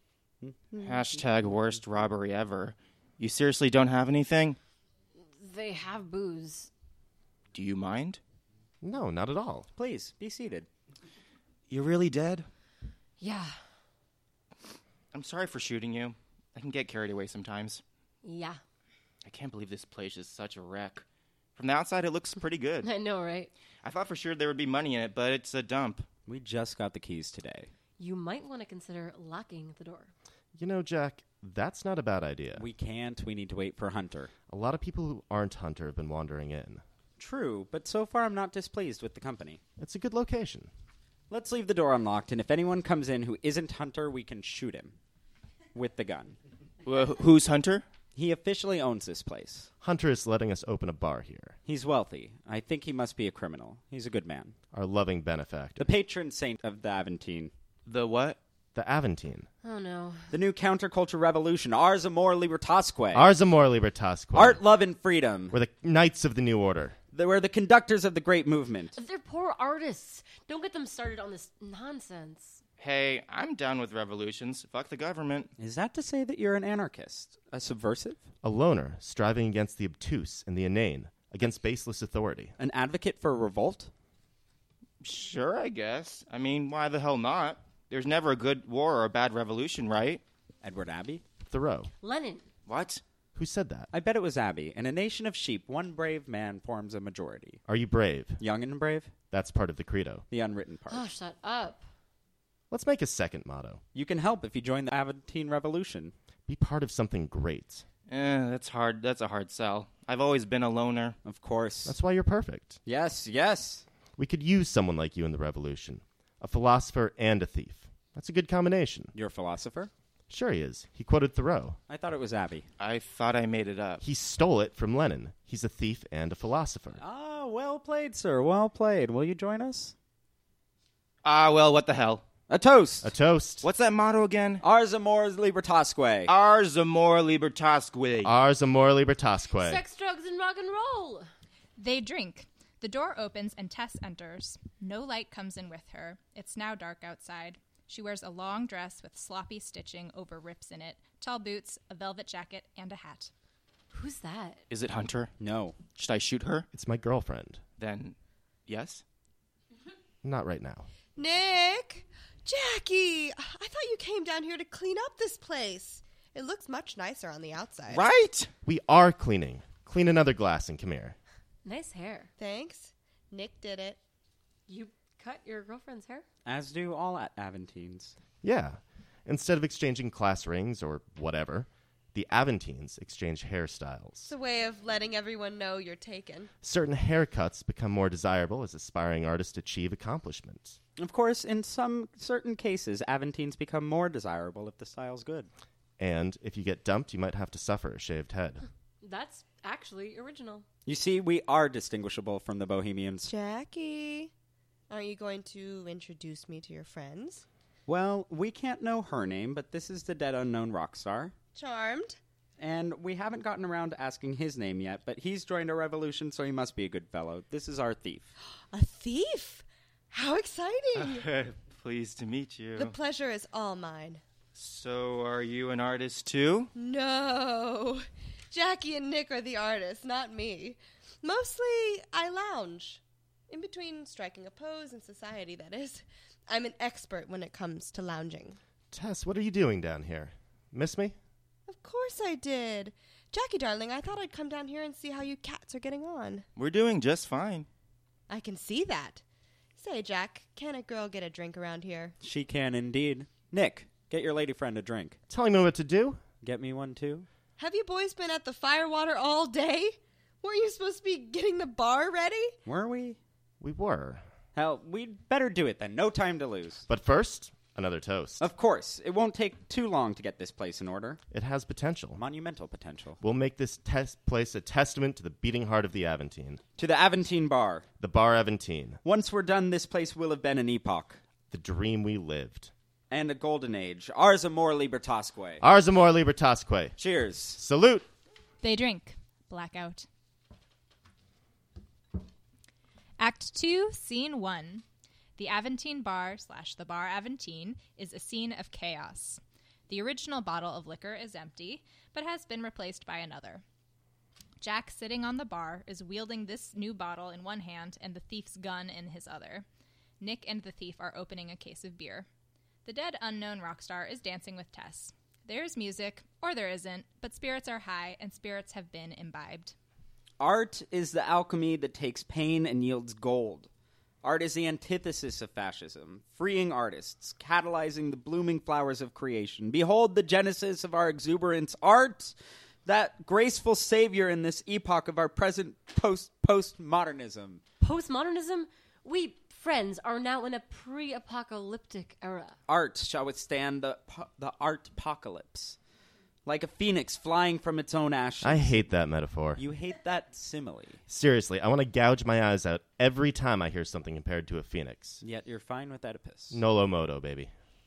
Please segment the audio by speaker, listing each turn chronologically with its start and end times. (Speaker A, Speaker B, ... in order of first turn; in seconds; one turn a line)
Speaker A: 0.4-0.7
Speaker B: 0.8-4.6
Speaker C: 5.2-6.7
Speaker B: 7.5-8.2
Speaker D: 8.8-9.7
Speaker A: 9.7-10.7
Speaker B: 11.7-12.5
Speaker C: 13.2-13.6
Speaker B: 15.1-17.8
Speaker C: 18.2-18.6
Speaker B: 19.2-21.0
Speaker B: 21.6-22.9
Speaker C: 22.8-23.5
Speaker B: 23.8-26.0
Speaker A: 26.3-27.7
Speaker C: 28.0-30.1
Speaker D: 30.5-32.6
Speaker A: 32.5-34.3
Speaker D: 34.5-36.8
Speaker A: 37.2-39.6
Speaker D: 39.8-40.7
Speaker A: 41.3-44.9
Speaker A: 45.7-46.4
Speaker B: 46.8-47.8
Speaker A: 48.1-49.7
Speaker D: 49.8-51.6
Speaker A: 51.6-54.5
Speaker D: 54.7-55.9
Speaker A: 55.8-57.5
Speaker B: 57.9-58.4
Speaker D: 58.7-59.5
Speaker C: 59.6-60.3
Speaker A: 60.3-63.3
Speaker D: 63.1-64.6
Speaker A: 64.3-65.6
Speaker D: 65.5-67.0
Speaker A: 67.1-68.9
Speaker C: 68.9-72.6
Speaker B: 72.8-75.5
Speaker A: 75.6-78.2
Speaker D: 78.4-82.5
Speaker A: 82.6-83.9
Speaker B: 85.0-90.2
Speaker A: 90.6-91.2
Speaker D: 91.5-91.9
Speaker C: 92.0-92.5
Speaker B: 92.7-93.0
Speaker D: 93.3-93.9
Speaker A: 93.9-97.6
Speaker D: 97.7-98.4
Speaker A: 98.4-99.1
Speaker D: 99.3-100.2
Speaker A: 100.3-101.0
Speaker C: 100.9-101.8
Speaker D: 102.7-103.8
Speaker A: 103.9-106.1
Speaker D: 106.5-107.8
Speaker B: 108.1-111.2
Speaker A: 111.2-112.0
Speaker D: 111.8-112.8
Speaker A: 112.8-113.8
Speaker D: 114.2-119.1
Speaker A: 119.1-119.9
Speaker D: 120.3-121.8
Speaker A: 121.9-122.7
Speaker B: 122.8-124.0
Speaker D: 124.0-127.0
Speaker A: 127.0-129.9
Speaker B: 131.2-132.2
Speaker A: 132.5-133.1
Speaker D: 133.0-133.7
Speaker B: 133.6-134.6
Speaker A: 134.6-136.3
Speaker B: 136.3-138.3
Speaker D: 138.2-139.8
Speaker C: 139.6-141.3
Speaker E: 141.8-153.3
Speaker C: 153.9-154.6
Speaker B: 154.7-155.3
Speaker A: 155.4-155.8
Speaker B: 155.9-156.7
Speaker D: 156.7-157.6
Speaker B: 157.8-158.1
Speaker B: 158.7-159.0
Speaker D: 160.2-160.9
Speaker F: 161.2-168.0
Speaker B: 167.9-168.5
Speaker D: 168.7-171.2
Speaker C: 171.6-172.3
Speaker F: 172.4-174.0
Speaker C: 174.7-176.2
Speaker A: 176.4-178.1
Speaker D: 178.4-184.3
Speaker F: 184.2-186.5
Speaker D: 186.6-190.8
Speaker A: 191.0-195.5
Speaker D: 196.0-198.6
Speaker C: 199.0-200.7
Speaker A: 200.8-203.3
Speaker F: 203.2-204.3
Speaker F: 204.9-207.4
Speaker A: 207.9-211.3
Speaker F: 211.5-212.2
Speaker A: 212.6-218.3
Speaker F: 218.7-221.2
Speaker B: 221.0-222.9
Speaker F: 222.8-224.2
Speaker B: 224.5-226.7
Speaker F: 226.7-238.6
Speaker D: 238.9-241.2
Speaker F: 241.7-246.4
Speaker B: 246.6-247.7
Speaker F: 248.3-249.2
Speaker F: 249.8-252.2
Speaker A: 252.2-255.2
Speaker D: 255.3-256.2
Speaker A: 256.4-257.3
Speaker F: 257.6-262.6
Speaker A: 262.6-263.2
Speaker D: 263.6-264.2
Speaker A: 264.5-266.8
Speaker D: 266.9-268.5
Speaker A: 268.4-271.2
Speaker D: 271.3-272.2
Speaker A: 272.1-273.2
Speaker D: 273.2-276.6
Speaker A: 276.8-277.9
Speaker D: 278.0-279.0
Speaker A: 279.0-281.2
Speaker D: 281.5-282.7
Speaker A: 283.1-285.6
Speaker D: 285.6-287.0
Speaker A: 287.0-287.6
Speaker D: 287.5-288.1
Speaker E: 288.6-290.1
Speaker E: 293.2-294.8
Speaker E: 295.4-303.6
Speaker E: 304.6-309.6
Speaker E: 310.2-312.3
Speaker E: 312.8-319.7
Speaker A: 320.4-323.7
Speaker A: 324.2-332.3
Speaker A: 332.9-337.6
Speaker C: 337.8-342.6
Speaker A: 342.7-345.8
Speaker A: 346.4-348.9
Speaker D: 348.4-349.6
Speaker A: 349.6-351.0
Speaker D: 351.1-355.2
Speaker A: 355.2-356.6
Speaker D: 356.5-357.5